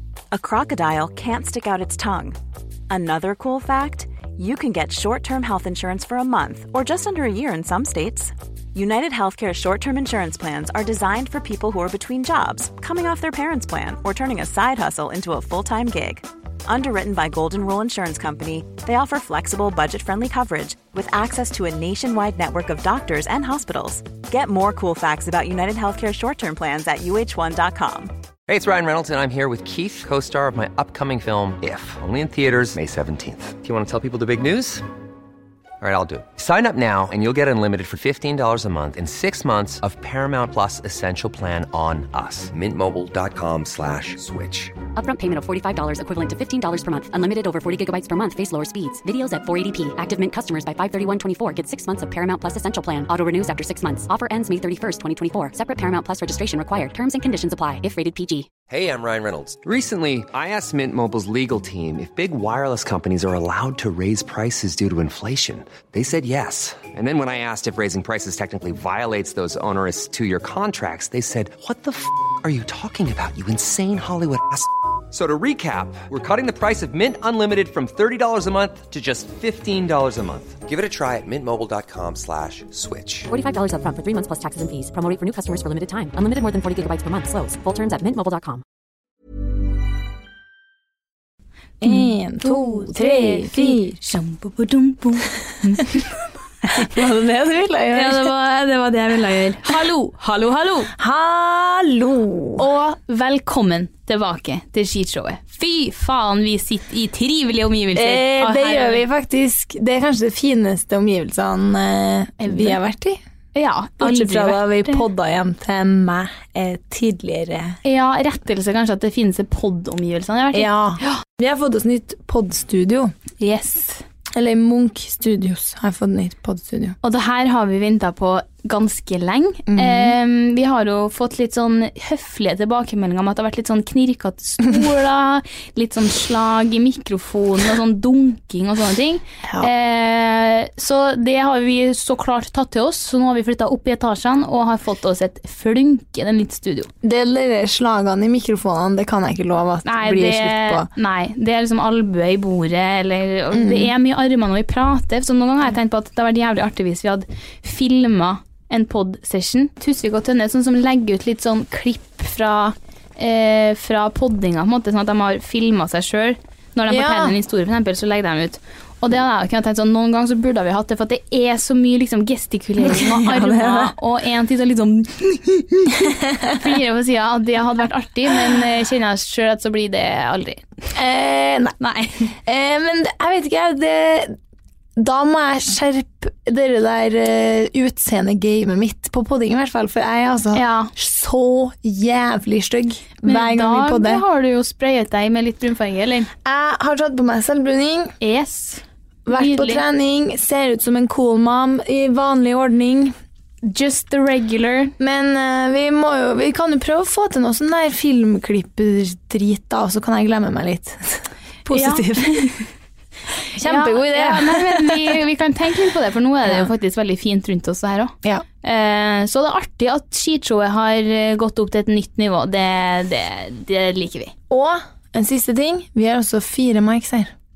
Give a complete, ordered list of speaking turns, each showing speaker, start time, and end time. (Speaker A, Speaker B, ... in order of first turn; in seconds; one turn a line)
Speaker A: 0.3-2.4
Speaker A: 2.9-28.1
Speaker B: 28.5-34.8
Speaker B: 35.8-44.8
Speaker C: 44.9-58.5
Speaker B: 58.7-83.3
Speaker C: 83.3-88.6
Speaker D: 91.8-94.0
Speaker E: 91.8-96.0
Speaker D: 96.7-98.3
Speaker E: 97.9-100.9
Speaker D: 101.0-102.7
Speaker E: 102.6-109.0
Speaker D: 107.9-113.2
Speaker E: 112.4-112.8
Speaker E: 113.5-115.0
Speaker D: 114.0-117.8
Speaker E: 117.8-121.2
Speaker D: 120.5-123.1
Speaker E: 123.4-124.0
Speaker D: 124.3-127.0
Speaker E: 127.0-146.9
Speaker D: 129.7-130.2
Speaker D: 147.0-150.9
Speaker E: 149.8-180.7
Speaker D: 153.5-153.9
Speaker D: 166.9-167.3
Speaker D: 172.8-173.9
Speaker D: 175.9-176.7
Speaker D: 180.9-181.8
Speaker E: 181.8-182.3
Speaker D: 182.3-184.3
Speaker D: 184.9-194.2
Speaker E: 190.5-190.9
Speaker E: 193.2-196.3
Speaker D: 196.4-198.1
Speaker E: 198.2-199.8
Speaker D: 199.2-203.1
Speaker E: 203.6-204.9
Speaker D: 205.0-212.6
Speaker E: 211.7-212.6
Speaker D: 213.5-215.2
Speaker E: 213.6-224.3
Speaker D: 224.5-227.3